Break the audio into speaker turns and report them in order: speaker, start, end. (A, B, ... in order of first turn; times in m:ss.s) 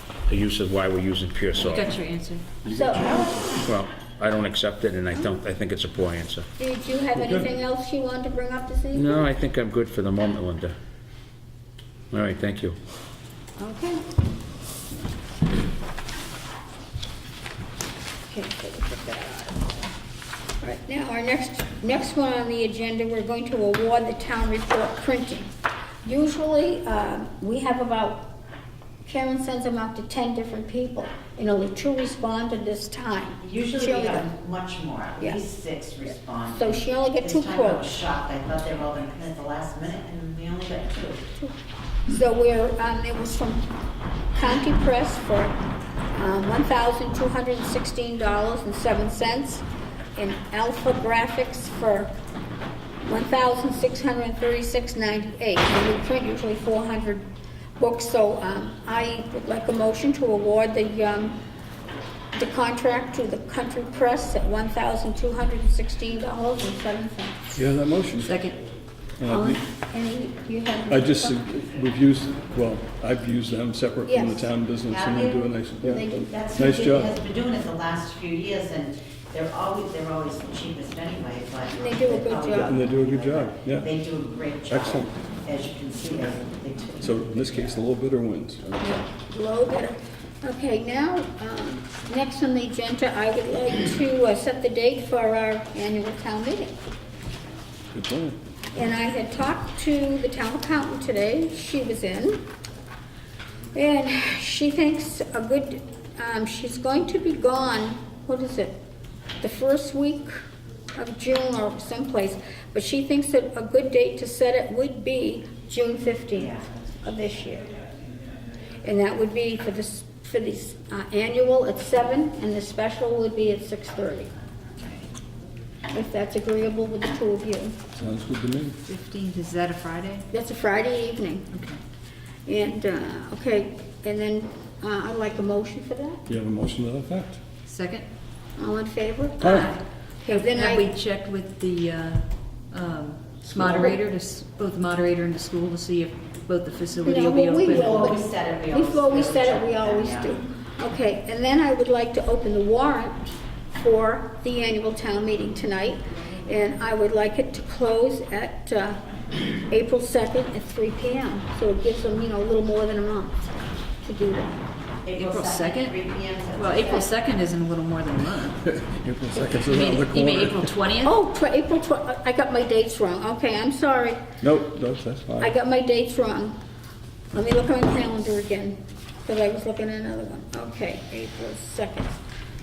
0:00.3-0:01.8 A
0:01.7-0:02.4 B
0:02.6-0:03.5 C
0:02.7-0:03.5 D
0:03.6-0:06.4 A
0:06.6-0:09.3 D
0:07.2-0:07.5 C
0:08.9-0:10.7 A
0:12.1-0:12.8 A
0:13.6-0:14.0 D
0:18.3-0:19.6 D
0:20.6-0:25.5 D
0:26.0-0:28.3 D
0:29.0-0:34.3 D
0:33.4-0:41.2 E
0:35.2-0:35.4 D
0:36.5-0:37.9 D
0:42.1-0:43.6 D
0:44.3-0:45.5 D
0:46.2-0:49.6 D
0:50.2-0:52.1 D
0:53.0-0:57.3 D
0:57.8-1:01.4 D
1:02.3-1:07.6 D
1:07.5-1:08.4 C
1:08.2-1:08.6 B
1:09.2-1:09.6 C
1:09.3-1:11.4 D
1:10.9-1:17.2 C
1:14.1-1:14.5 D
1:14.9-1:15.5 E
1:15.8-1:17.0 D
1:16.3-1:27.2 E
1:21.7-1:22.8 D
1:22.6-1:24.0 C
1:24.7-1:25.1 C
1:27.0-1:29.0 C
1:29.1-1:36.8 D
1:37.9-1:38.4 C
1:38.7-1:42.4 D
1:43.7-1:48.8 D
1:49.4-1:50.4 D
1:50.9-1:57.7 D
1:58.8-2:04.3 D
2:04.8-2:05.0 B
2:05.9-2:07.8 D
2:07.9-2:08.8 C
2:08.8-2:10.3 B
2:10.3-2:11.5 D
2:11.5-2:11.8 B
2:12.4-2:16.2 D
2:16.3-2:17.4 C
2:17.6-2:18.0 B
2:18.6-2:19.6 D
2:19.4-2:19.7 C
2:19.4-2:28.2 B
2:20.2-2:20.9 D
2:23.5-2:24.0 C
2:27.0-2:39.0 D
2:27.7-2:30.3 E
2:39.7-2:43.5 D
2:44.0-2:44.6 D
2:45.0-2:47.1 E
2:45.1-2:46.0 B
2:46.5-2:48.6 B
2:48.7-2:50.7 C
2:49.4-2:51.2 B
2:51.0-2:54.2 D
2:54.4-2:55.5 C
2:55.4-2:56.6 D
2:57.3-3:02.2 D